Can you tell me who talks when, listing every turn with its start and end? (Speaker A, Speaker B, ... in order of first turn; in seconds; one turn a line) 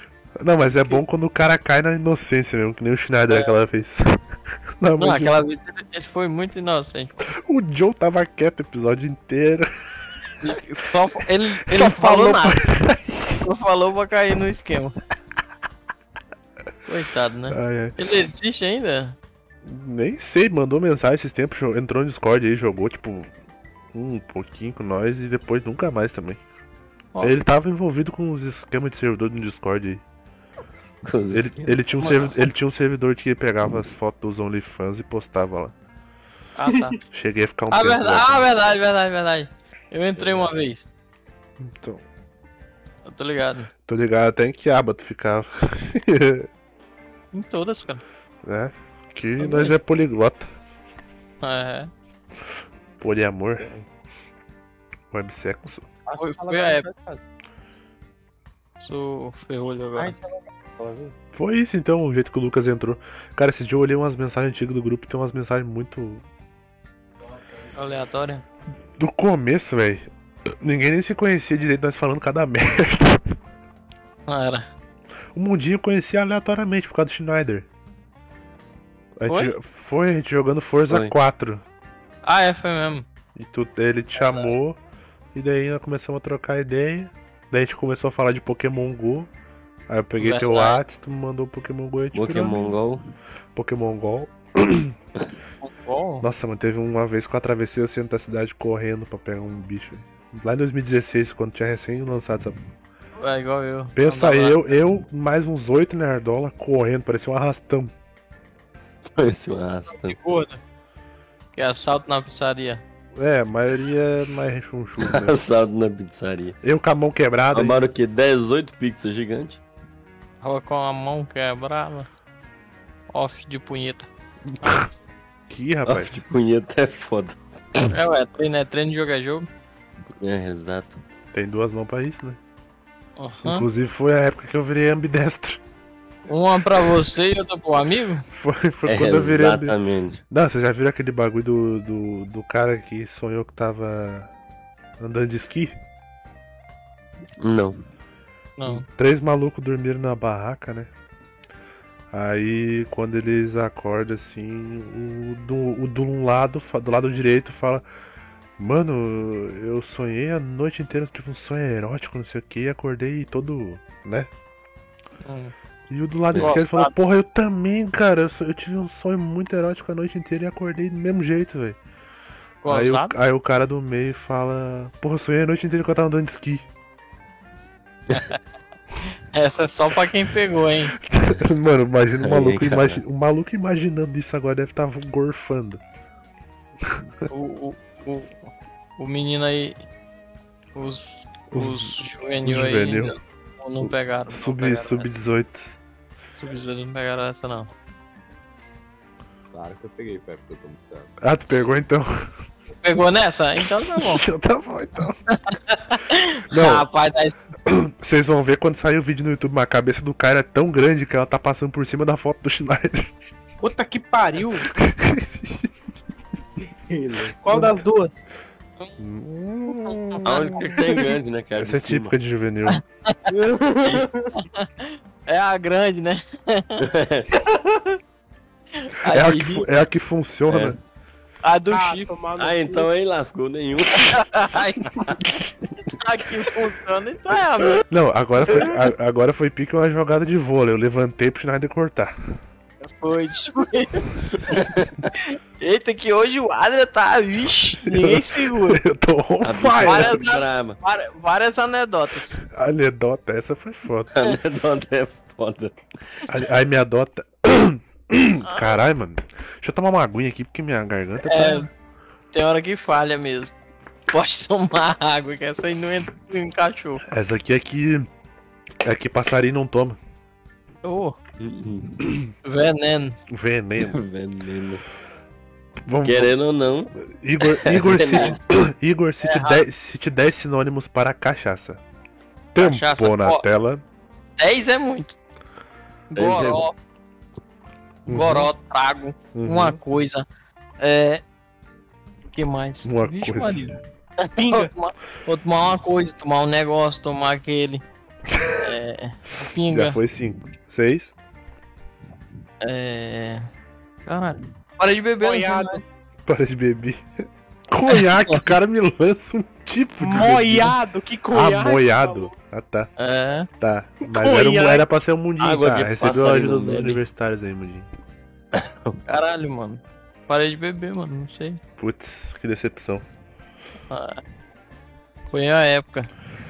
Speaker A: 0.4-4.2
Speaker B: 3.3-3.5
Speaker A: 4.8-5.4
Speaker B: 5.0-7.1
Speaker A: 7.2-9.7
Speaker B: 10.4-12.7
Speaker A: 11.7-13.4
Speaker B: 13.4-15.0
Speaker B: 16.9-19.2
Speaker A: 17.5-18.0
Speaker A: 19.6-23.3
Speaker A: 23.9-26.4
Speaker A: 27.2-30.0
Speaker C: 31.0-31.8
Speaker A: 31.3-35.7
Speaker B: 32.0-32.3
Speaker B: 36.6-37.0
Speaker A: 37.1-38.5
Speaker B: 37.7-40.8
Speaker A: 41.6-42.0
Speaker B: 43.0-43.7
Speaker A: 43.9-46.5
Speaker B: 47.3-48.0
Speaker A: 48.4-50.5
Speaker B: 49.4-49.7
Speaker B: 51.4-51.9
Speaker A: 53.0-53.7
Speaker D: 53.6-53.9
Speaker A: 55.1-55.9
Speaker D: 56.1-57.2
Speaker B: 56.2-56.9
Speaker B: 58.8-60.1
Speaker D: 60.0-61.1
Speaker A: 61.3-66.2
Speaker B: 67.8-68.4
Speaker A: 69.0-70.1
Speaker A: 70.6-73.3
Speaker B: 74.3-74.7
Speaker A: 75.3-77.7
Speaker A: 79.2-81.6
Speaker B: 79.3-79.5
Speaker B: 82.2-83.1
Speaker A: 83.4-84.8
Speaker B: 84.2-84.5
Speaker A: 85.3-89.3
Speaker A: 89.9-92.6
Speaker B: 90.2-90.8
Speaker C: 92.1-93.0
Speaker A: 93.5-95.0
Speaker B: 95.6-96.2
Speaker A: 96.2-102.6
Speaker B: 103.2-104.6
Speaker A: 104.0-107.9
Speaker C: 109.2-110.2
Speaker B: 109.9-110.6
Speaker B: 111.5-112.8
Speaker A: 113.2-115.4
Speaker C: 115.0-116.6
Speaker A: 116.6-117.8
Speaker C: 117.5-119.6
Speaker B: 120.4-122.1
Speaker B: 123.1-124.1
Speaker A: 125.5-126.2
Speaker C: 125.9-127.9
Speaker B: 127.9-129.5
Speaker C: 130.2-131.0
Speaker A: 131.3-132.4
Speaker B: 133.2-133.7
Speaker A: 133.4-135.6
Speaker B: 136.3-138.2
Speaker A: 138.3-139.8
Speaker C: 138.9-140.2
Speaker A: 140.3-144.3
Speaker A: 145.0-145.8
Speaker C: 147.4-147.8
Speaker B: 148.6-148.9
Speaker A: 148.7-150.9
Speaker A: 152.1-157.8
Speaker A: 158.6-164.3
Speaker B: 165.2-165.5
Speaker A: 165.9-171.8
Speaker C: 166.3-166.6
Speaker B: 166.4-166.9
Speaker B: 172.6-173.2
Speaker A: 172.7-176.7
Speaker B: 179.0-181.0
Speaker A: 181.0-185.8
Speaker C: 182.2-183.0
Speaker A: 186.8-187.3
Speaker B: 187.3-189.8
Speaker B: 190.8-195.1
Speaker A: 191.5-193.2
Speaker A: 193.8-195.7
Speaker B: 196.4-197.7
Speaker D: 199.5-201.1
Speaker A: 201.2-202.3
Speaker B: 202.8-204.2
Speaker A: 203.8-205.2
Speaker B: 205.3-207.3
Speaker A: 206.5-206.9
Speaker A: 207.7-213.2
Speaker E: 213.6-214.7
Speaker A: 214.7-215.7
Speaker D: 216.9-217.7
Speaker E: 217.4-218.2
Speaker A: 219.0-220.8
Speaker B: 219.7-220.3
Speaker C: 220.2-222.1
Speaker A: 221.6-222.8
Speaker B: 222.7-223.3
Speaker E: 223.3-224.4
Speaker B: 224.3-226.8
Speaker C: 226.8-227.3
Speaker E: 227.4-227.8
Speaker B: 228.8-229.7
Speaker A: 229.1-230.8
Speaker C: 230.5-230.8
Speaker B: 231.4-232.1
Speaker E: 231.7-232.9
Speaker C: 232.4-234.3
Speaker B: 234.0-235.3
Speaker C: 234.9-235.2
Speaker B: 235.8-237.8
Speaker A: 237.9-242.1
Speaker B: 242.8-248.8
Speaker C: 244.5-245.0
Speaker A: 247.8-250.2
Speaker C: 249.4-250.8
Speaker B: 249.8-252.4
Speaker A: 252.4-254.1
Speaker C: 254.2-256.3
Speaker A: 256.3-261.7
Speaker B: 261.2-261.7
Speaker B: 262.3-263.5
Speaker B: 264.1-267.0
Speaker A: 267.1-268.1
Speaker A: 268.8-270.0
Speaker B: 270.8-271.2
Speaker C: 271.4-272.0
Speaker B: 272.4-273.2
Speaker A: 273.3-274.0
Speaker C: 273.8-274.8
Speaker A: 275.8-276.3
Speaker C: 276.0-278.4
Speaker A: 277.0-281.8
Speaker B: 279.2-279.6
Speaker A: 282.5-283.8
Speaker B: 282.6-283.4
Speaker B: 284.4-285.2
Speaker B: 286.1-286.8
Speaker C: 286.1-286.6
Speaker B: 288.1-290.3
Speaker A: 288.1-288.5
Speaker A: 289.3-289.8
Speaker B: 290.8-291.2
Speaker B: 292.3-297.9
Speaker A: 292.8-293.8
Speaker E: 294.4-294.7
Speaker A: 298.3-298.7
Speaker B: 298.6-300.0
Speaker A: 299.7-301.1
Speaker B: 302.6-303.5
Speaker B: 304.1-305.8
Speaker E: 305.2-305.8
Speaker A: 306.3-310.8
Speaker B: 307.9-308.4
Speaker E: 310.0-312.3
Speaker A: 311.3-312.9
Speaker B: 313.0-313.5
Speaker A: 313.6-317.9
Speaker E: 314.1-314.9
Speaker C: 315.4-317.0
Speaker C: 318.6-319.0
Speaker B: 319.1-321.6
Speaker A: 321.8-323.0
Speaker B: 323.9-324.2
Speaker B: 325.3-326.1